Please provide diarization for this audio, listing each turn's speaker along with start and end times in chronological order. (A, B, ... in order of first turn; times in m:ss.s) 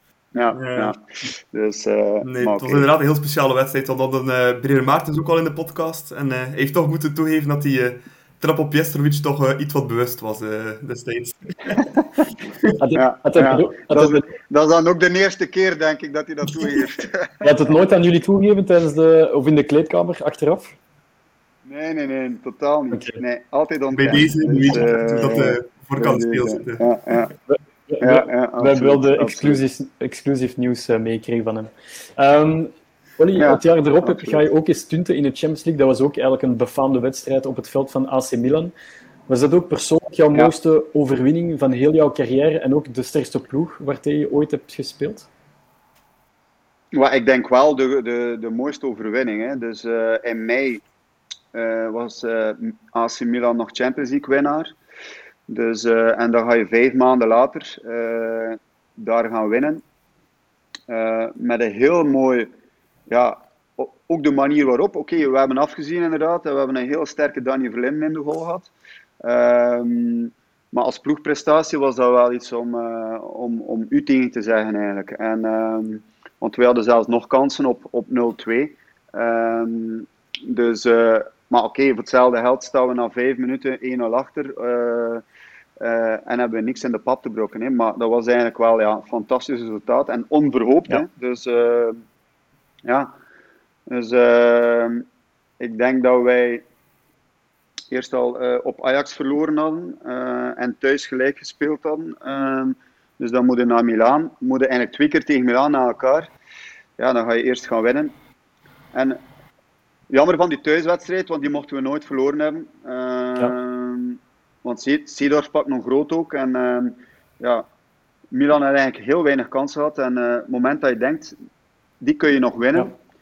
0:00.4-0:02.9 A
0:00.5-0:00.9 B
0:02.2-0:11.9 B
0:12.8-0:14.3 C
0:13.0-0:17.5 A
0:17.4-0:20.8 C
0:21.7-0:27.3 A
0:22.9-0:23.2 C
0:24.0-0:26.8 B
0:27.5-0:38.7 C
0:28.0-0:29.6 A
0:33.4-0:34.4 A
0:39.3-0:45.3 C
0:46.9-0:50.8 A
0:51.5-0:54.8 A
0:55.5-0:59.8 A
1:00.9-1:02.5 A
1:03.1-1:08.7 A
1:09.2-1:25.2 A
1:25.8-1:32.0 A
1:32.8-1:33.2 A
1:33.9-1:35.0 A
1:35.6-1:36.6 A
1:37.9-1:46.3 A
1:47.0-1:48.1 A
1:48.9-1:49.2 A
1:50.1-1:57.7 A
1:58.3-2:01.3 A
2:02.0-2:02.9 A